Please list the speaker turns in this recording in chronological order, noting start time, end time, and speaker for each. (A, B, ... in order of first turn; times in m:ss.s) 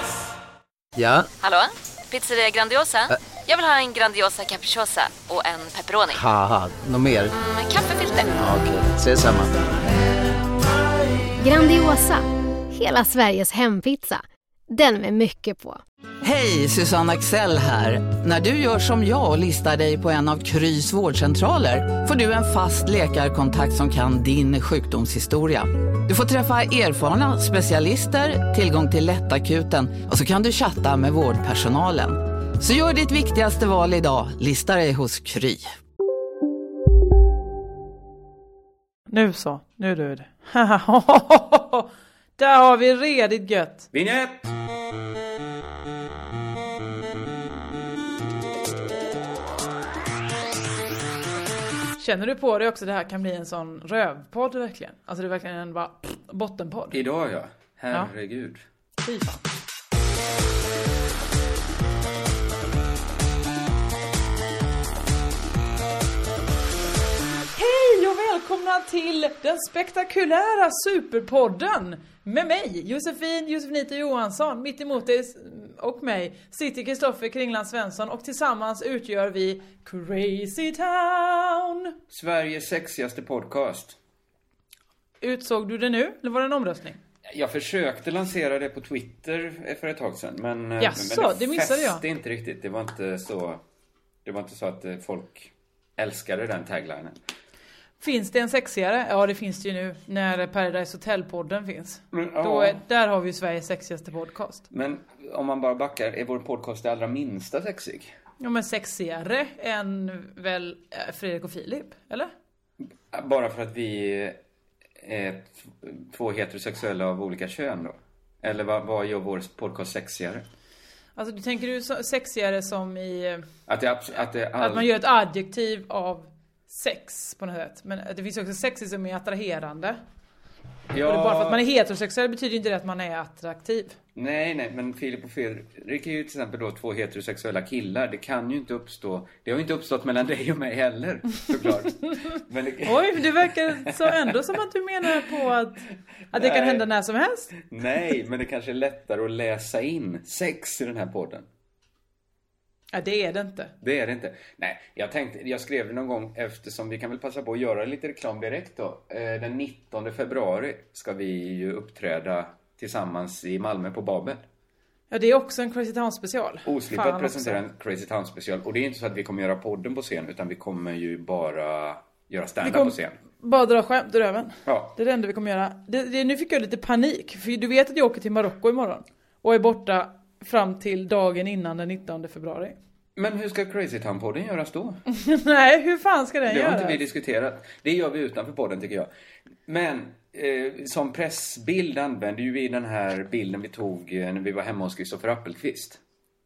0:01.0-0:01.2 A
0:01.4-0:06.3 B
0:06.4-0:07.3 A
0:07.3-0:08.4 B
0:08.4-0:09.5 A
0:11.4-0:15.8 C
0:16.2-0:35.7 D
0:39.1-0:43.9 E
0:43.9-0:44.5 F
0:52.0-0:57.0 E
0:56.9-0:58.6 F
0:59.0-0:59.4 E
1:07.6-1:22.0 E
1:22.1-1:24.0 F
1:25.2-1:27.0 E
1:27.3-1:33.6 F
1:30.8-1:32.0 E
1:34.2-1:37.2 F
1:38.0-1:44.6 E
1:42.1-1:42.8 F
1:44.7-1:48.2 F
1:48.4-1:52.3 E
1:53.1-1:54.4 F
1:55.0-2:00.4 F
2:01.2-2:03.4 E
2:03.7-2:04.9 F
2:04.6-2:10.0 E
2:10.9-2:11.6 F
2:11.0-2:14.0 E
2:14.2-2:24.3 F
2:22.9-2:27.6 E
2:25.1-2:25.4 F
2:26.3-2:26.8 F
2:27.6-2:31.5 F
2:32.9-2:33.7 E
2:33.8-2:44.4 F
2:45.1-2:47.6 E
2:46.6-2:53.2 F
2:52.6-3:02.8 E
2:54.7-2:55.0 F
3:03.2-3:05.0 F
3:05.1-3:07.0 E
3:06.5-3:09.1 F
3:09.7-3:16.0 F